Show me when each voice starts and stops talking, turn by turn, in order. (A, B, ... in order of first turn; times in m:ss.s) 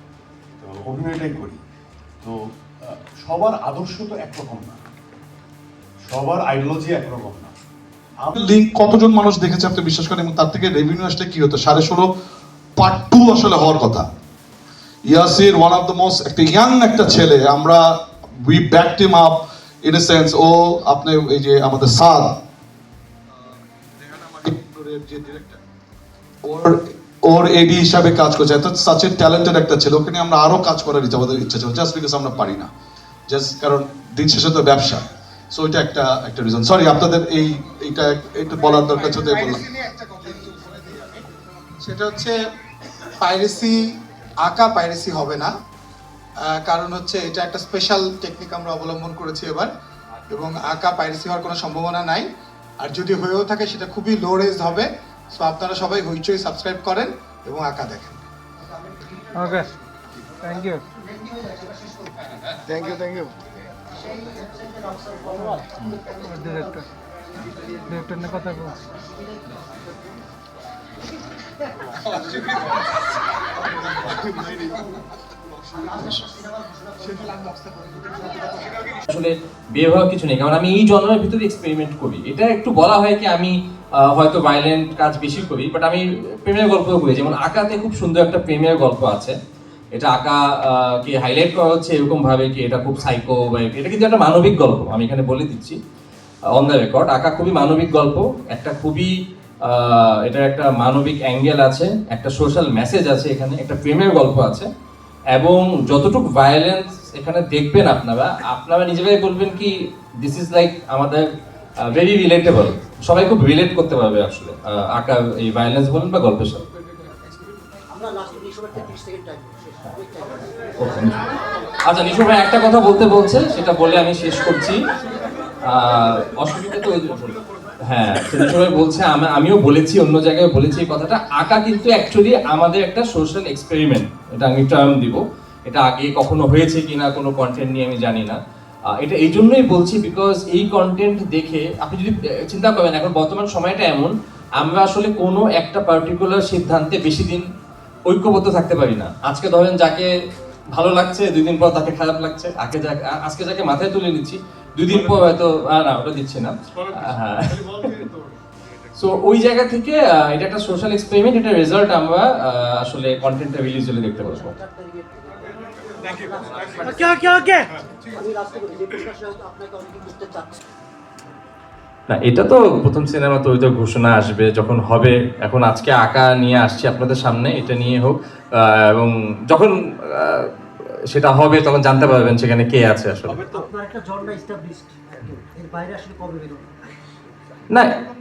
0:00.6-0:01.6 A
0:02.2-0:04.9 A
0:06.0-0:07.5 A
0:08.2-0:08.5 A
0:08.4-0:12.1 B
0:12.8-0:14.1 B
0:15.1-0:22.4 B
0:23.4-0:25.6 B
0:26.4-0:32.7 B
0:33.3-0:39.6 B
0:39.1-0:41.2 C
0:41.8-0:42.4 C
0:43.2-0:43.9 C
0:44.4-0:45.5 C
0:46.5-0:49.7 C
0:50.3-0:52.3 C
0:52.8-0:58.3 C
0:59.4-0:59.7 D
1:00.4-1:00.8 D
1:01.2-1:02.1 E
1:02.7-1:03.3 C
1:04.1-1:06.7 E
1:06.1-1:06.9 D
1:07.9-1:08.8 D
1:19.1-1:23.5 F
1:24.0-1:29.4 F
1:30.0-1:35.8 F
1:36.6-1:39.1 F
1:39.7-1:44.7 F
1:45.3-1:51.2 F
1:51.8-1:56.6 F
1:57.9-2:00.7 E
2:00.8-2:01.3 F
2:01.9-2:04.8 F
2:05.7-2:18.4 F
2:19.0-2:27.5 F
2:28.1-2:30.1 F
2:30.8-2:38.0 F
2:39.0-2:44.6 F
2:44.4-2:50.7 E
2:52.1-3:00.5 F
3:01.1-3:03.4 F
3:03.3-3:03.7 A
3:03.7-3:06.7 E